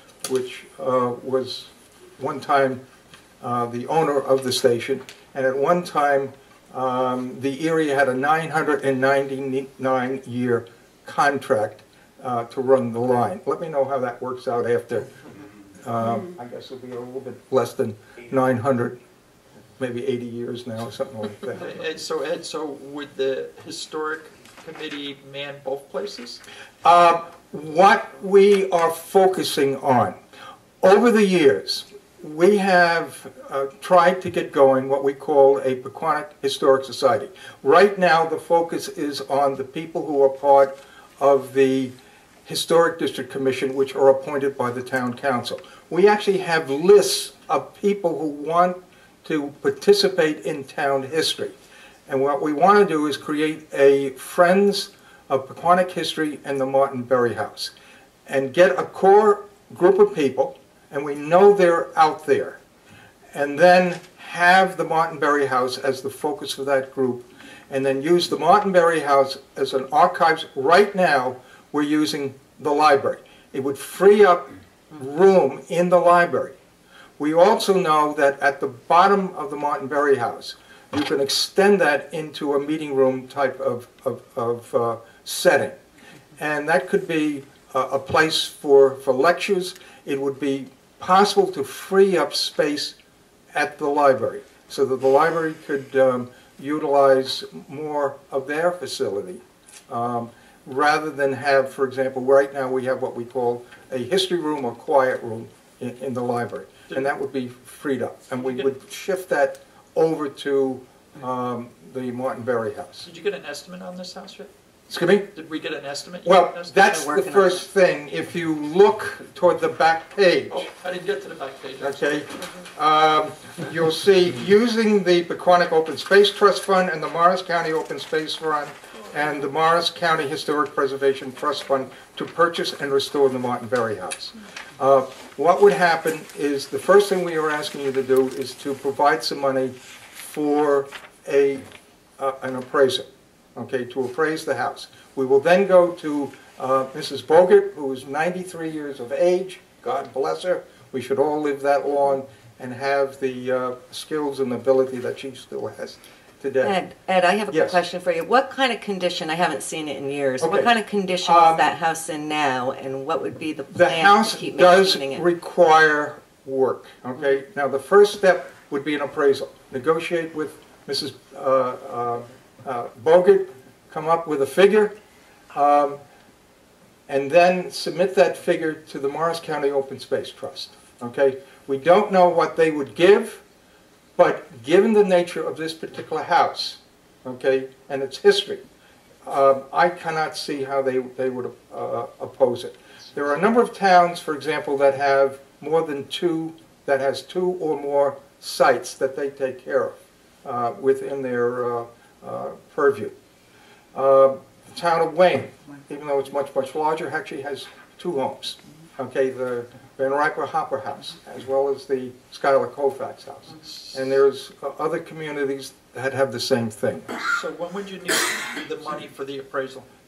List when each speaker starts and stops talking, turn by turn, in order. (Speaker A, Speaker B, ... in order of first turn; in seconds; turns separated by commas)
Speaker A: 0.2-2.8, Speaker A: 3.4-15.2, Speaker A: 15.8-19.0, Speaker A: 19.8-21.7, Speaker B: 21.6-26.4, Speaker A: 26.8-30.2, Speaker A: 30.8-41.9, Speaker A: 42.5-57.7, Speaker A: 58.3-62.6, Speaker A: 63.3-76.5, Speaker A: 77.2-85.8, Speaker A: 86.4-93.0, Speaker A: 93.5-113.1, Speaker B: 108.4-108.7, Speaker B: 113.1-114.5, Speaker A: 114.9-115.3, Speaker B: 115.3-116.8, Speaker A: 116.2-120.7, Speaker C: 116.8-117.6, Speaker B: 120.5-122.3, Speaker A: 121.8-156.8, Speaker C: 156.6-165.2, Speaker A: 157.5-157.8, Speaker A: 160.4-161.7, Speaker A: 163.7-175.0, Speaker A: 175.5-176.0, Speaker A: 177.1-183.4, Speaker A: 184.2-188.6, Speaker A: 189.2-203.1, Speaker A: 203.9-217.2, Speaker B: 213.6-213.9, Speaker B: 217.3-219.9